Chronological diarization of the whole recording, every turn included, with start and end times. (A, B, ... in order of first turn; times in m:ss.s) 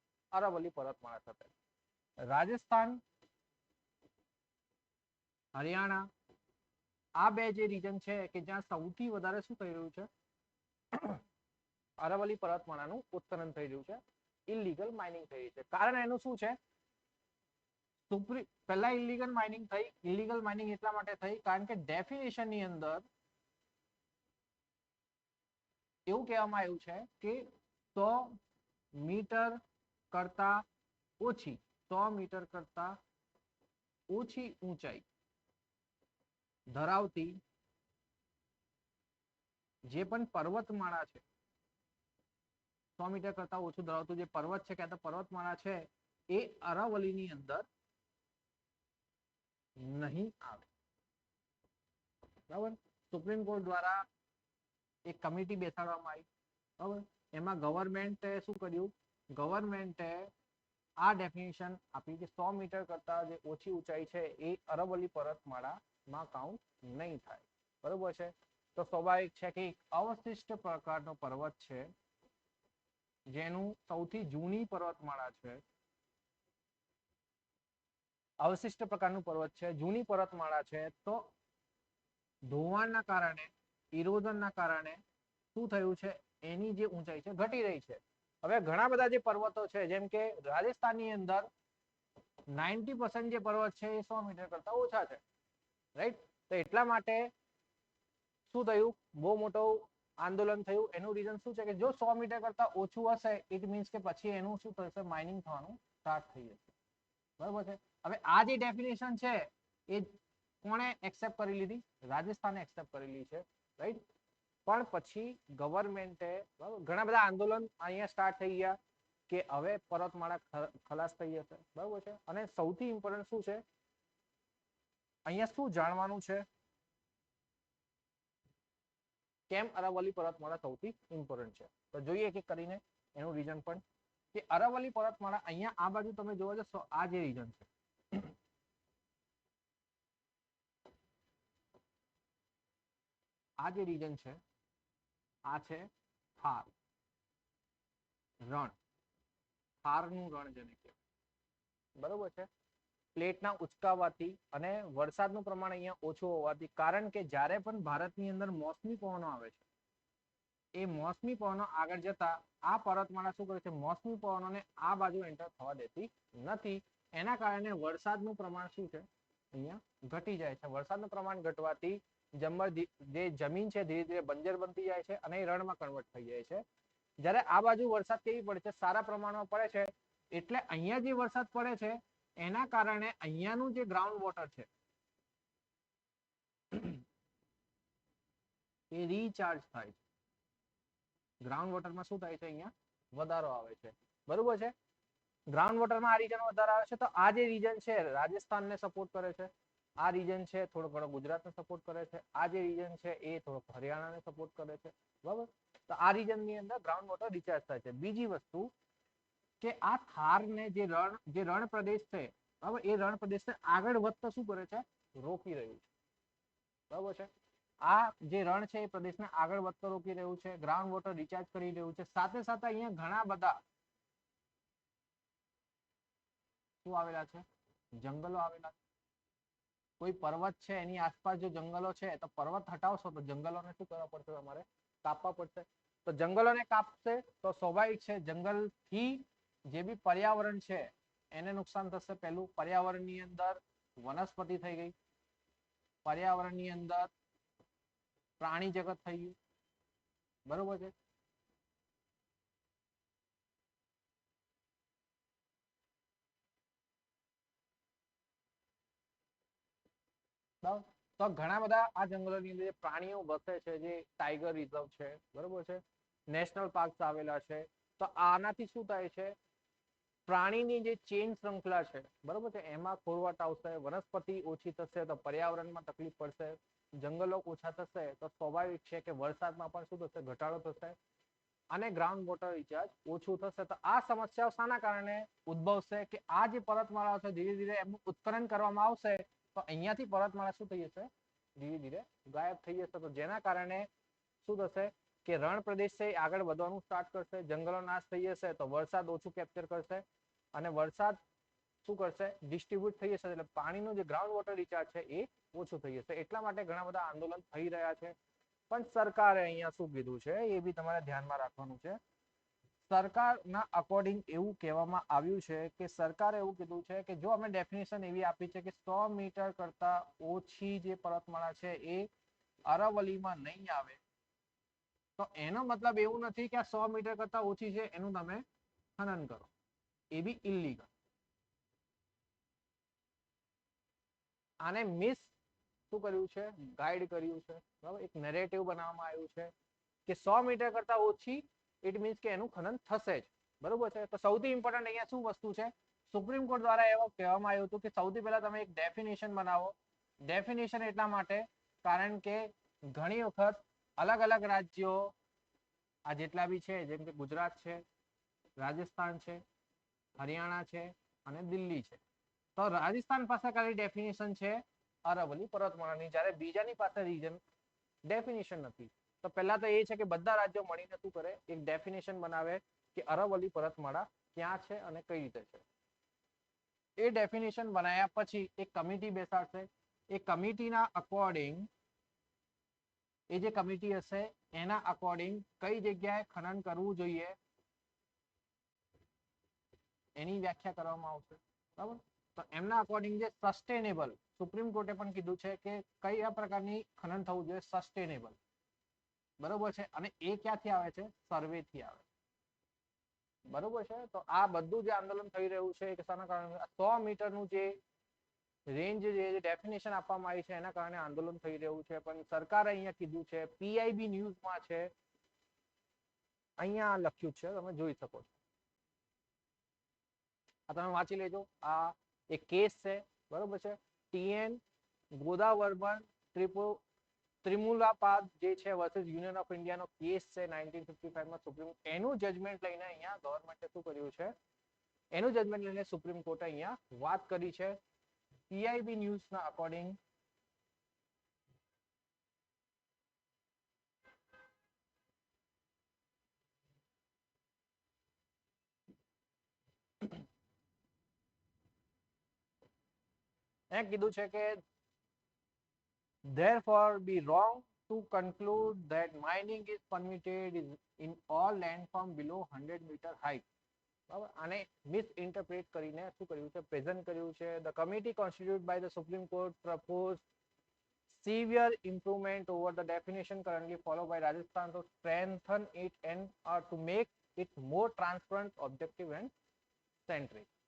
0:00.3-0:01.5 A
0:02.2-0:03.0 A
0:05.5-0:06.1 A
0:07.2-0:10.1 A
0:10.9-0:11.2 A
0:12.0-0:16.6 A
0:18.1-0:23.0 A
0:26.1-0:28.4 A
0:29.0-0:29.6 A
0:30.1-0:30.6 A
0:31.2-0:33.0 A
0:34.1-0:35.0 A
0:36.7-0:37.4 A
0:39.9-0:41.2 A
0:43.0-0:47.7 A
0:49.8-0:50.7 A
0:52.5-0:54.0 A
0:55.0-0:56.3 A
0:56.8-1:00.3 A
1:01.0-1:11.9 A
1:13.3-1:15.6 A
1:18.4-1:21.3 A
1:22.4-1:25.0 A
1:25.5-1:31.5 A
1:32.5-1:35.2 A
1:36.0-1:37.3 A
1:38.5-1:46.7 A
1:47.4-1:54.0 A
1:54.6-1:58.8 A
1:59.3-2:03.6 A
2:05.2-2:06.4 A
2:09.5-2:13.8 A
2:14.3-2:18.3 A
2:23.6-2:24.4 A
2:25.5-2:26.7 A
2:28.4-2:28.7 A
2:29.8-2:31.0 A
2:32.0-2:32.5 A
2:33.2-2:39.6 A
2:40.7-2:56.6 A
2:57.2-3:04.7 A
3:06.7-3:07.0 A
3:08.9-3:10.0 A
3:11.4-3:14.7 A
3:15.5-3:28.7 A
3:29.6-3:35.9 A
3:36.9-3:37.3 A
3:37.8-3:43.6 A
3:46.8-3:47.4 A
3:48.0-3:48.8 A
3:50.0-4:04.9 A
4:06.0-4:07.1 A
4:08.4-4:09.4 A
4:10.4-4:10.9 A
4:20.6-4:29.4 A
4:30.3-4:41.0 A
4:41.7-4:53.9 A
4:54.4-5:01.2 A
5:01.8-5:08.1 A
5:08.7-5:12.0 A
5:12.9-5:22.1 A
5:22.6-5:24.0 A
5:25.2-5:28.4 A
5:29.0-5:29.5 A
5:30.1-5:30.9 A
5:34.6-5:35.3 A
5:35.9-5:39.5 A
5:40.0-5:55.1 A
5:56.0-5:57.8 A
5:58.6-5:59.4 A
6:00.2-6:02.0 A
6:02.6-6:07.4 A
6:08.0-6:15.6 A
6:17.0-6:21.7 A
6:23.3-6:27.4 A
6:30.2-6:38.4 A
6:39.4-6:42.0 A
6:43.5-6:47.8 A
6:48.7-6:54.9 A
6:56.6-6:58.3 A
7:00.7-7:04.6 A
7:05.1-7:06.8 A
7:07.4-7:14.3 A
7:15.1-7:17.8 A
7:18.5-7:20.0 A
7:33.7-7:34.6 A
7:36.3-7:43.4 A
7:44.1-7:50.2 A
7:51.1-7:59.3 A
8:00.0-8:00.5 A